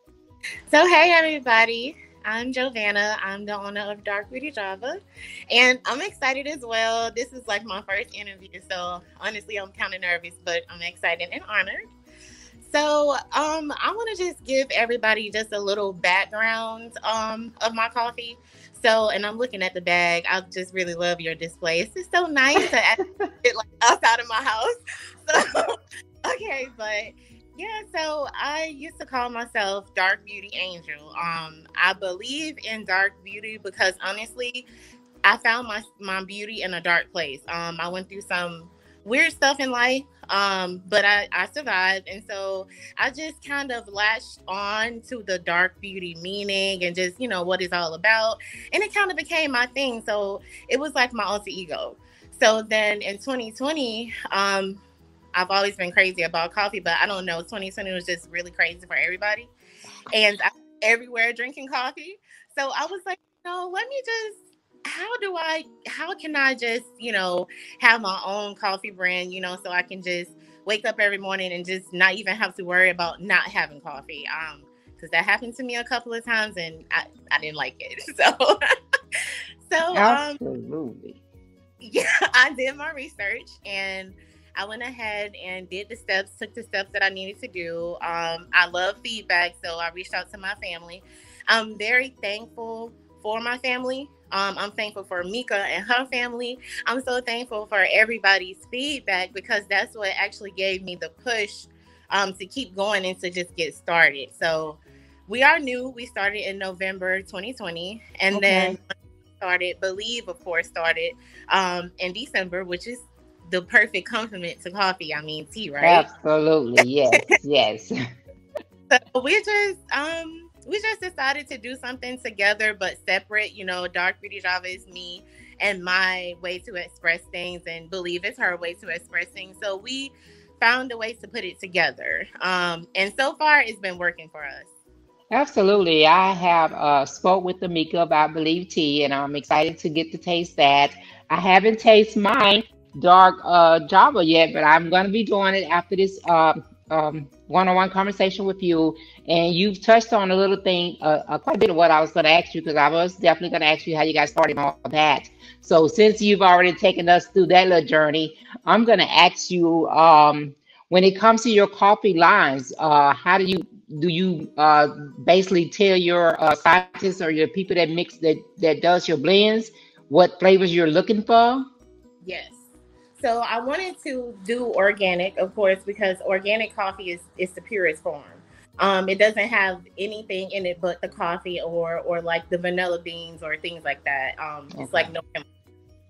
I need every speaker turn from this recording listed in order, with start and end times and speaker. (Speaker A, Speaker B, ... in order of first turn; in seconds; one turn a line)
Speaker A: 0.7-5.0
Speaker A: 5.5-11.8
Speaker A: 12.6-24.8
Speaker A: 25.3-34.7
Speaker A: 35.2-54.8
Speaker A: 55.3-59.5
Speaker A: 60.1-78.5
Speaker A: 79.7-80.4
Speaker B: 79.9-81.2
Speaker A: 81.8-108.8
Speaker B: 108.3-108.8
Speaker A: 109.4-116.0
Speaker B: 115.8-117.9
Speaker A: 118.9-134.7
Speaker B: 135.3-171.6
Speaker A: 172.2-172.6
Speaker A: 173.2-185.4
Speaker B: 184.7-185.1